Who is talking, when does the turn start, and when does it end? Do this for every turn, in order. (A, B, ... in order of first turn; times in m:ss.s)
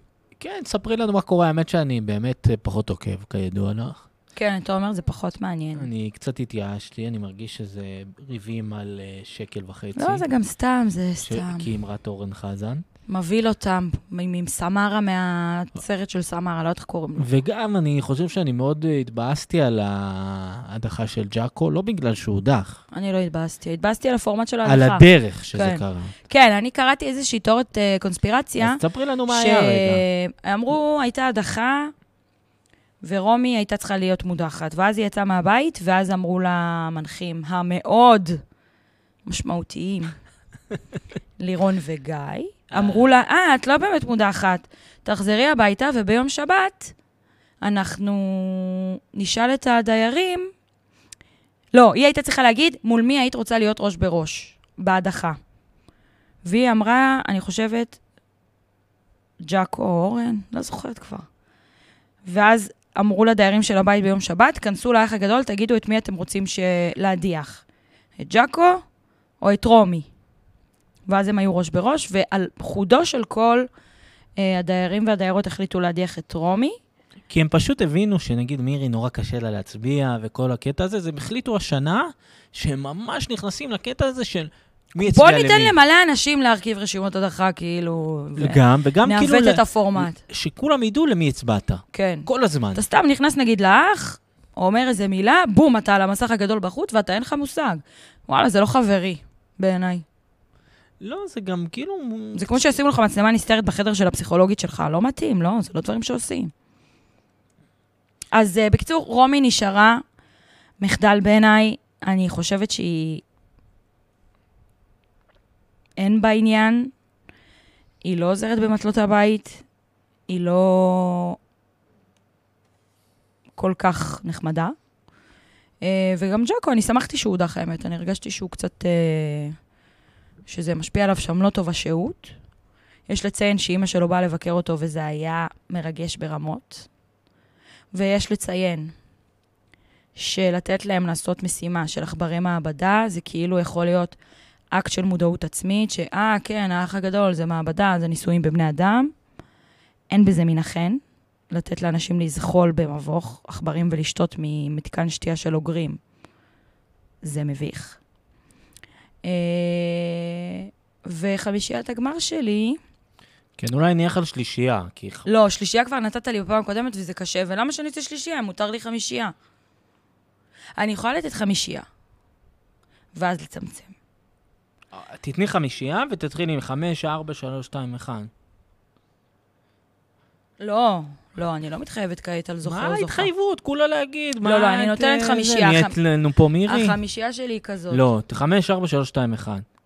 0:00.4-0:04.1 A
0:04.4-0:05.9 B
0:05.7-0:10.2 A
0:10.0-0:11.7 B
0:11.2-0:12.8 A
0:13.1-0:17.3 B
0:17.2-0:22.8 A
0:22.9-0:31.9 B
0:24.6-0:26.1 A
0:28.6-0:30.0 A
0:33.0-0:38.4 B
0:39.2-0:40.1 B
0:41.4-0:46.9 B
0:42.7-0:43.1 A
0:47.6-0:50.5 B
0:51.7-0:55.4 B
0:56.4-0:58.0 B
0:59.4-1:01.3 B
1:02.2-1:07.6 B
1:08.2-1:08.8 B
1:09.4-1:10.1 B
1:11.1-1:13.7 B
1:14.4-1:16.8 B
1:17.3-1:25.7 A
1:25.0-1:30.2 B
1:28.4-1:32.8 A
1:31.9-1:40.0 B
1:41.0-1:42.8 A
1:42.3-1:46.5 B
1:48.3-1:50.0 B
1:50.8-1:53.2 B
1:56.0-1:56.9 B
1:58.0-1:59.6 B
2:00.3-2:01.4 B
2:03.6-2:04.7 B
2:05.8-2:09.6 B
2:10.5-2:12.3 B
2:13.1-2:16.9 B
2:17.9-2:18.9 B
2:20.1-2:24.2 B
2:24.7-2:29.1 B
2:30.1-2:36.0 B
2:37.2-2:38.0 B
2:39.2-2:42.8 B
2:43.6-2:45.3 A
2:45.2-2:49.3 B
2:50.8-2:51.8 B
2:53.1-2:53.9 B
2:54.9-2:58.3 A
3:00.6-3:03.3 B
3:02.6-3:07.0 A
3:04.4-3:06.0 B
3:06.6-3:08.0 B
3:07.9-3:09.6 A